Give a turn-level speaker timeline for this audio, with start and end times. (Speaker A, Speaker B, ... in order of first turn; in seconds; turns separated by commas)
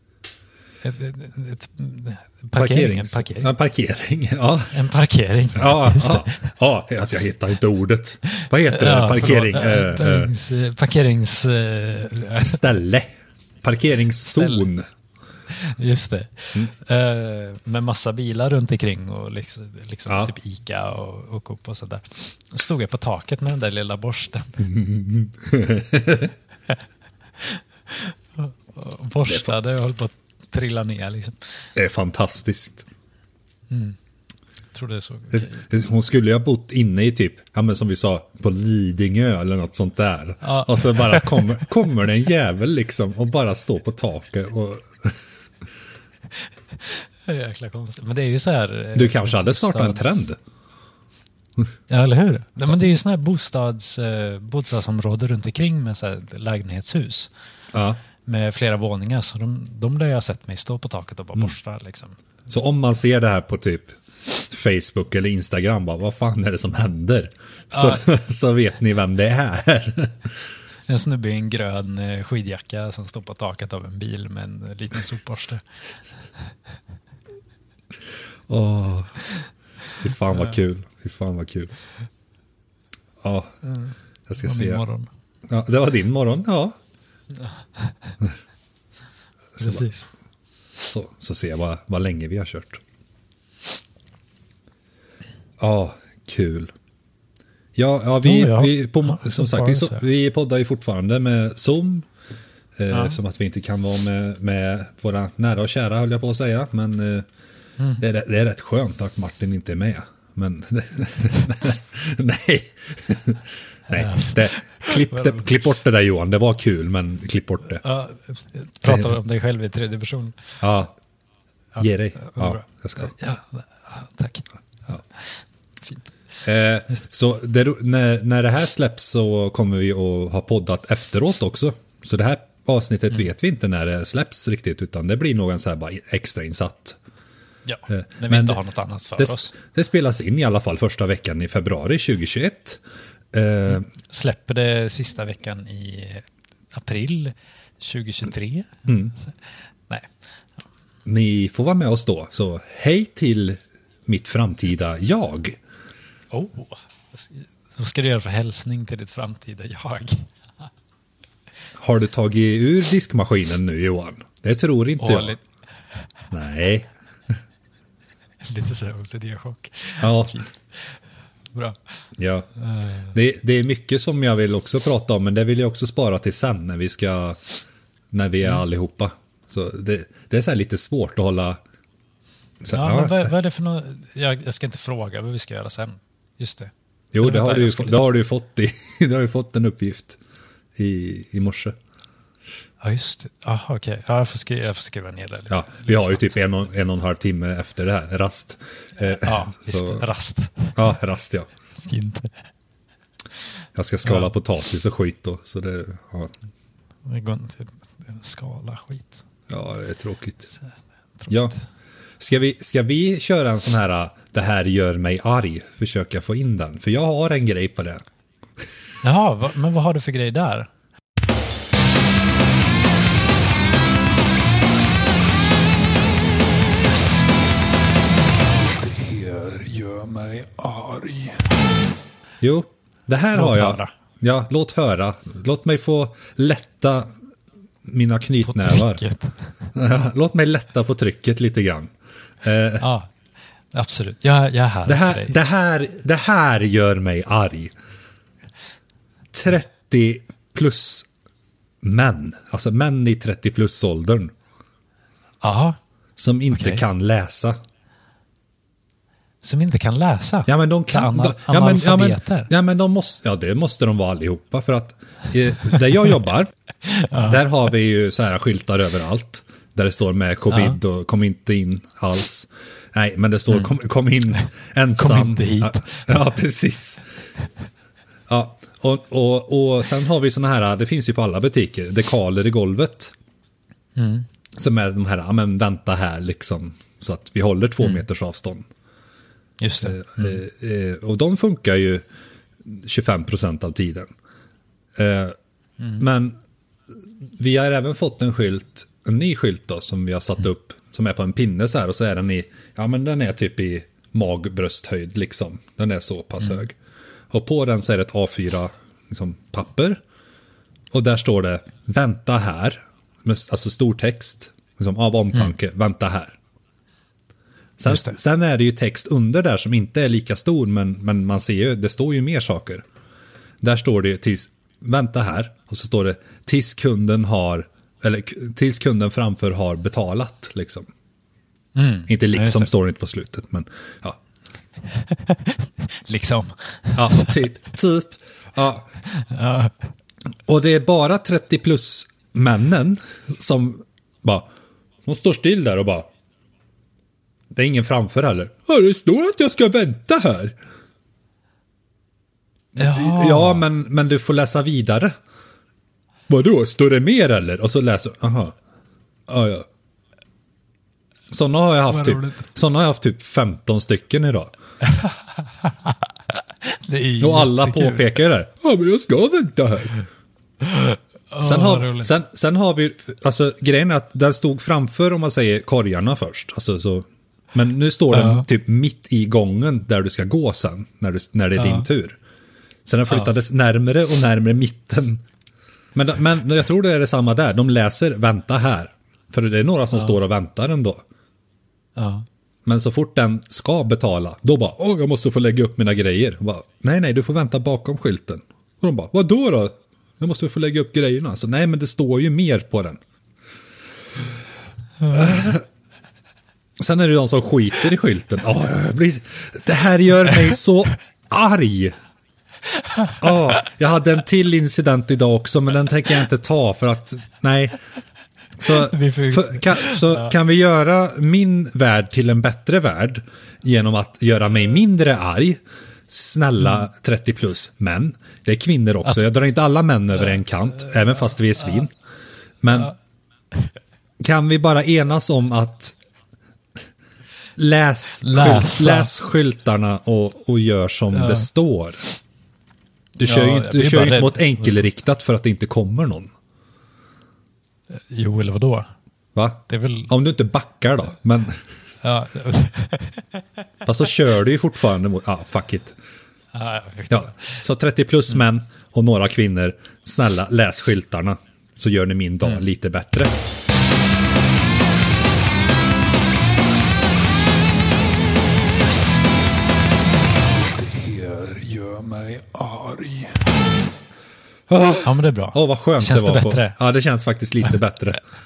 Speaker A: 0.8-3.5, Speaker B: 2.5-4.8, Speaker A: 4.7-6.4, Speaker B: 5.5-10.3, Speaker A: 8.3-12.6, Speaker B: 12.4-14.8, Speaker A: 14.3-14.6, Speaker A: 15.5-24.6, Speaker B: 20.1-20.3, Speaker B: 24.6-26.3, Speaker A: 27.4-31.4, Speaker B: 29.2-29.5, Speaker B: 31.7-32.8, Speaker A: 33.7-34.0, Speaker A: 34.7-35.6, Speaker B: 35.3-45.2, Speaker A: 40.4-41.5, Speaker A: 46.8-50.2, Speaker B: 48.9-50.4, Speaker A: 51.9-57.3, Speaker B: 57.7-58.0, Speaker A: 58.3-62.2, Speaker B: 62.5-70.3, Speaker A: 67.7-68.0, Speaker A: 70.9-75.6, Speaker B: 78.5-79.2, Speaker B: 80.0-81.7, Speaker B: 83.2-83.5, Speaker B: 84.3-84.8, Speaker A: 84.4-85.1, Speaker B: 85.5-86.8, Speaker A: 87.8-88.1, Speaker B: 89.6-89.8, Speaker A: 89.6-90.1, Speaker B: 90.8-92.8, Speaker B: 95.6-96.7, Speaker B: 97.7-102.0, Speaker A: 98.2-100.0, Speaker B: 102.8-107.3, Speaker A: 102.9-103.2, Speaker B: 108.0-117.8, Speaker A: 113.9-115.4, Speaker A: 117.8-120.4, Speaker B: 118.8-119.2, Speaker B: 120.6-120.9, Speaker B: 121.8-123.1, Speaker A: 121.8-124.4, Speaker B: 126.4-137.0, Speaker A: 137.7-139.5, Speaker B: 137.9-138.6, Speaker B: 139.2-142.8, Speaker B: 143.3-143.9, Speaker A: 143.9-149.3, Speaker B: 148.9-149.1, Speaker B: 151.0-155.6, Speaker A: 156.3-160.3, Speaker B: 161.8-165.4, Speaker A: 165.0-165.4, Speaker B: 166.3-166.9, Speaker A: 168.4-170.6, Speaker B: 170.0-170.4, Speaker A: 171.5-171.8, Speaker B: 172.2-172.5, Speaker A: 172.6-173.1, Speaker B: 173.1-177.4, Speaker B: 178.1-181.6, Speaker B: 182.6-183.3, Speaker A: 182.7-188.0, Speaker B: 187.1-190.2, Speaker B: 190.8-191.8, Speaker A: 192.8-196.4, Speaker B: 195.5-200.0, Speaker A: 199.2-200.8, Speaker B: 200.7-201.5, Speaker A: 201.8-202.3, Speaker B: 203.7-206.3, Speaker A: 207.1-209.2, Speaker B: 209.5-210.5, Speaker A: 211.2-211.6, Speaker B: 211.3-211.5, Speaker B: 212.2-218.0, Speaker A: 219.0-220.7, Speaker C: 228.8-231.5, Speaker B: 232.4-237.1, Speaker A: 233.3-233.9, Speaker B: 237.8-239.0, Speaker A: 238.4-239.3, Speaker B: 239.7-242.8, Speaker A: 242.8-243.1, Speaker A: 243.7-245.4, Speaker B: 244.9-247.7, Speaker B: 249.3-251.1, Speaker B: 251.8-254.3, Speaker A: 255.4-255.8, Speaker B: 256.2-257.6, Speaker A: 256.5-256.8, Speaker A: 259.4-262.5, Speaker B: 260.4-266.5, Speaker A: 266.8-267.4, Speaker B: 267.2-277.0, Speaker A: 270.5-270.8, Speaker A: 275.0-276.0, Speaker B: 278.3-283.1, Speaker A: 283.9-284.3, Speaker B: 284.6-288.6, Speaker A: 289.6-290.4, Speaker B: 289.8-292.0, Speaker B: 292.6-294.1, Speaker B: 294.9-295.4, Speaker B: 296.0-296.4, Speaker B: 297.4-306.8, Speaker B: 307.3-310.0, Speaker B: 310.9-316.4, Speaker B: 317.8-322.8, Speaker A: 317.9-318.1, Speaker B: 323.6-330.9, Speaker A: 331.7-332.7, Speaker B: 332.1-334.2, Speaker A: 334.9-337.4, Speaker B: 336.9-338.9, Speaker A: 339.1-339.7, Speaker B: 340.4-344.5, Speaker B: 345.0-346.1, Speaker B: 347.5-350.5, Speaker A: 352.8-353.6, Speaker B: 352.8-355.1, Speaker B: 356.3-358.6, Speaker B: 359.3-359.7, Speaker B: 361.3-364.5, Speaker A: 361.9-362.4, Speaker A: 364.8-368.1, Speaker B: 367.2-369.9, Speaker A: 370.6-372.1, Speaker B: 371.4-382.2, Speaker A: 378.1-378.4, Speaker A: 381.6-381.9, Speaker B: 382.8-385.2, Speaker B: 385.9-391.0, Speaker A: 391.9-392.2, Speaker B: 392.6-403.0, Speaker B: 405.1-405.6, Speaker B: 406.8-411.9, Speaker B: 413.2-417.8, Speaker B: 418.6-431.9, Speaker A: 418.7-420.3, Speaker B: 432.6-432.9, Speaker B: 434.2-435.9, Speaker B: 437.6-442.0, Speaker A: 438.2-439.1, Speaker A: 441.1-441.5, Speaker B: 443.2-446.3, Speaker A: 443.2-444.8, Speaker A: 447.9-448.9, Speaker B: 449.3-451.6, Speaker A: 449.7-450.1, Speaker A: 452.0-453.2, Speaker B: 453.8-455.9, Speaker A: 456.5-457.4, Speaker B: 457.1-463.3, Speaker C: 470.7-473.5, Speaker B: 474.7-478.2, Speaker A: 475.0-476.8